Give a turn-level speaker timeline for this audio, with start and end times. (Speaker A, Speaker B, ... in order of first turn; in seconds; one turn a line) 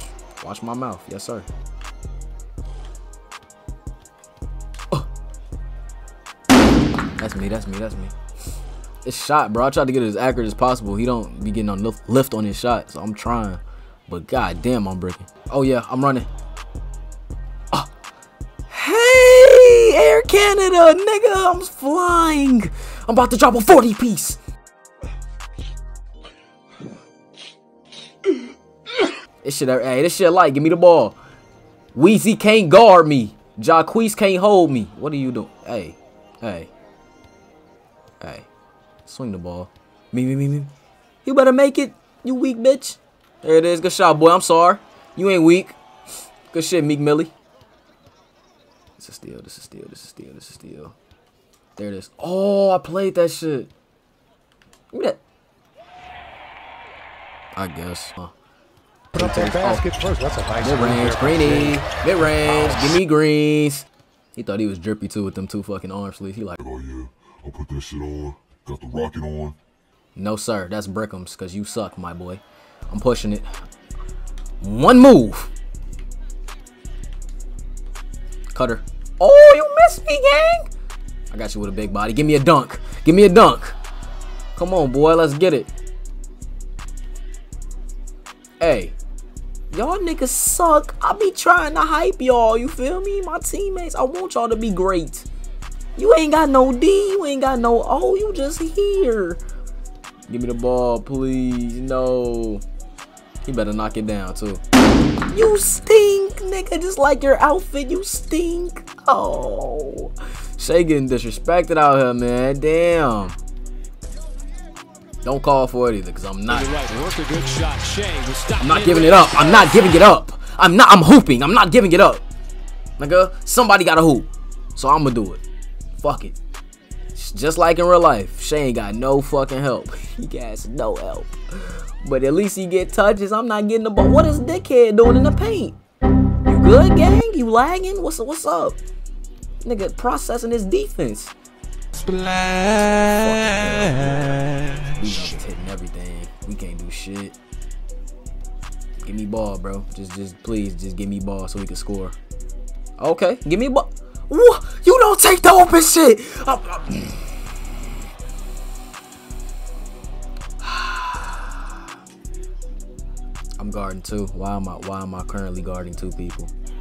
Speaker A: 0.4-1.5
Speaker A: 7.2-8.1
Speaker A: 9.0-16.3
Speaker A: 18.7-24.4
Speaker A: 29.4-31.1
Speaker A: 31.9-36.7
Speaker A: 38.2-38.5
Speaker A: 39.0-40.7
Speaker A: 41.2-45.8
Speaker A: 46.5-47.3
Speaker A: 49.0-51.0
Speaker A: 51.8-53.7
Speaker A: 54.9-55.2
Speaker A: 57.5-58.3
Speaker A: 59.1-60.0
Speaker B: 59.2-61.7
Speaker A: 60.6-66.6
Speaker C: 66.6-69.6
Speaker A: 70.2-73.5
Speaker A: 74.6-75.5
Speaker A: 78.5-80.7
Speaker A: 81.3-83.8
Speaker A: 84.5-85.7
Speaker A: 88.6-89.0
Speaker A: 89.7-95.3
Speaker A: 96.0-99.4
Speaker A: 100.3-102.6
Speaker A: 103.4-104.6
Speaker A: 105.3-113.4
Speaker A: 115.2-116.8
Speaker B: 116.6-119.6
Speaker A: 118.6-122.2
Speaker A: 123.0-125.4
Speaker A: 126.0-126.4
Speaker A: 127.1-135.8
Speaker A: 136.4-138.8
Speaker A: 139.6-141.3
Speaker A: 142.1-147.4
Speaker A: 149.0-152.2
Speaker A: 153.0-157.6
Speaker A: 160.6-161.8
Speaker A: 163.6-166.5